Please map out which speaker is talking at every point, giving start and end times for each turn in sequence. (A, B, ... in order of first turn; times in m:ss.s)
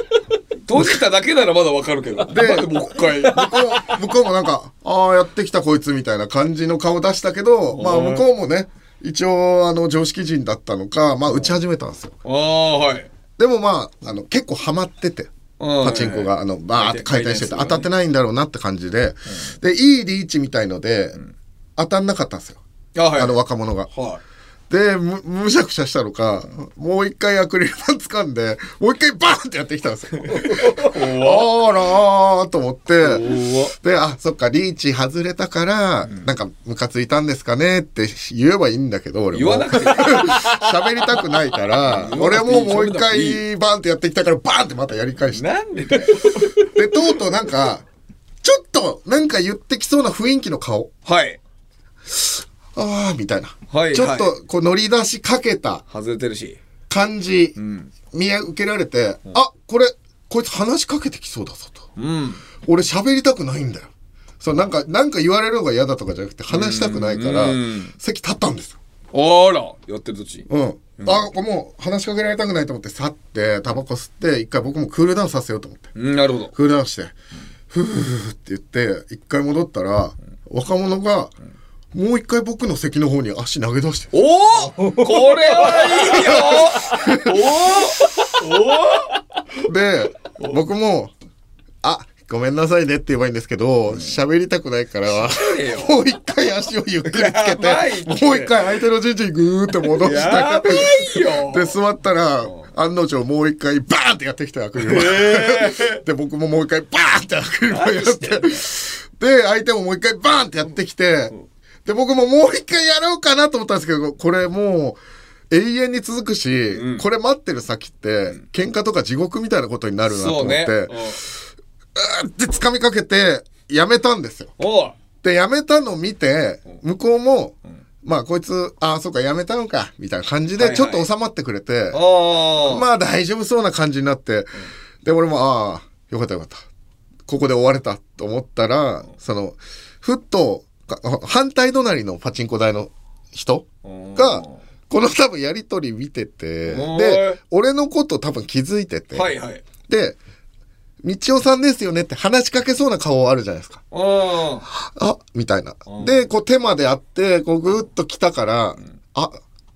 0:00.6-0:03.9 A
0:02.3-0:12.1 B
0:07.7-0:08.2 A
0:11.3-0:11.6 A
0:12.2-0:13.1 A
0:13.4-0:21.2 B
0:15.6-0:17.9 A
0:21.8-0:22.6 B
0:22.9-0:23.4 A
0:23.1-0:23.9 B
0:23.9-0:24.2 A
0:24.7-0:45.4 B
0:30.2-0:31.5 A
0:33.0-0:33.7 A
0:39.3-0:40.8 A
0:41.8-0:43.4 A
0:45.3-0:46.7 A
0:46.0-0:47.8 B
0:48.4-0:50.9 B
0:51.0-0:51.4 A
0:52.1-0:55.8 B
0:53.7-0:54.3 A
0:55.9-0:56.6 A
0:56.9-0:57.6 B
0:57.6-0:57.9 A
0:58.1-1:01.9 B
1:02.0-1:02.4 A
1:02.6-1:08.8 B
1:06.5-1:07.9 A
1:09.1-1:11.3 A
1:10.5-1:15.9 B
1:16.0-1:16.5 A
1:16.5-1:17.1 B
1:17.7-1:21.3 B
1:21.9-1:24.1 B
1:24.1-1:29.2 A
1:25.6-1:27.4 B
1:29.6-1:31.1 B
1:31.8-1:51.3 B
1:35.2-1:36.0 A
1:37.0-1:38.6 A
1:39.9-1:41.8 A
1:44.8-1:46.0 A
1:47.7-1:48.6 A
1:51.8-2:01.3 B
1:56.7-1:57.0 A
2:00.1-2:01.2 A
2:01.9-2:04.5 B
2:04.6-2:05.0 A
2:05.2-2:12.0 B
2:10.6-2:11.0 A
2:11.9-2:12.8 A
2:12.6-2:16.6 B
2:17.3-2:29.3 B
2:23.8-2:24.6 A
2:26.7-2:27.4 A
2:29.1-2:29.6 A
2:29.9-2:30.2 B
2:31.0-2:33.8 B
2:33.9-2:34.7 A
2:34.6-2:39.4 B
2:35.9-2:36.2 A